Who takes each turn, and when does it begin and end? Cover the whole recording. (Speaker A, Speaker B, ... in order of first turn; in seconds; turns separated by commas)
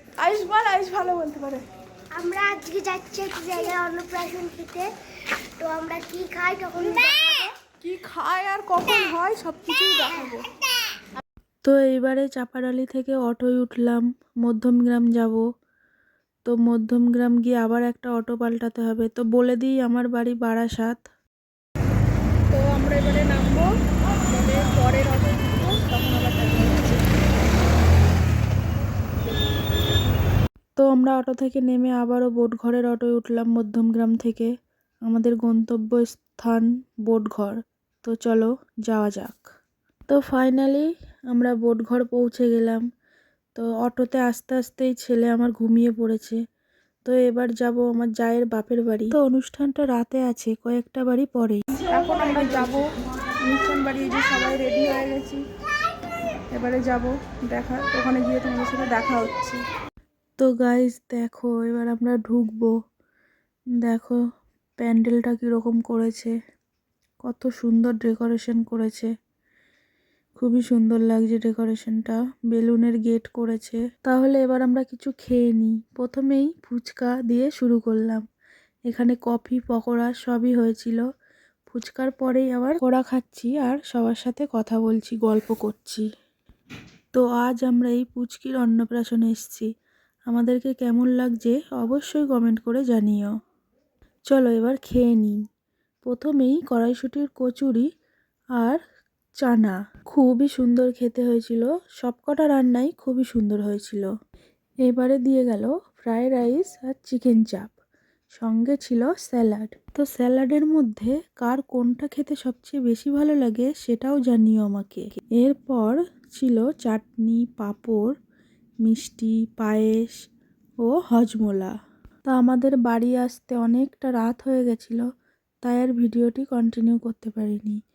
Speaker A: 0.2-1.6, Speaker B: 2.1-4.9, Speaker B: 5.6-7.5, Speaker A: 6.8-10.5, Speaker C: 11.7-15.4, Speaker C: 16.4-21.0, Speaker A: 22.5-23.7, Speaker A: 24.3-27.0, Speaker C: 30.8-34.5, Speaker C: 35.0-39.5, Speaker C: 40.1-42.8, Speaker C: 43.5-46.4, Speaker C: 47.1-51.6, Speaker A: 51.8-52.8, Speaker A: 53.4-55.4, Speaker A: 56.5-59.6, Speaker C: 60.4-62.7, Speaker C: 63.8-64.2, Speaker C: 64.8-66.3, Speaker C: 67.2-69.1, Speaker C: 70.4-78.2, Speaker C: 78.9-81.0, Speaker C: 81.7-86.0, Speaker C: 87.1-89.7, Speaker C: 90.3-93.3, Speaker C: 94.3-95.4, Speaker C: 96.0-97.9, Speaker C: 99.4-104.1, Speaker C: 104.8-107.7, Speaker C: 108.3-118.1, Speaker C: 118.8-120.2, Speaker C: 120.8-121.7, Speaker C: 122.3-125.0, Speaker C: 125.6-127.8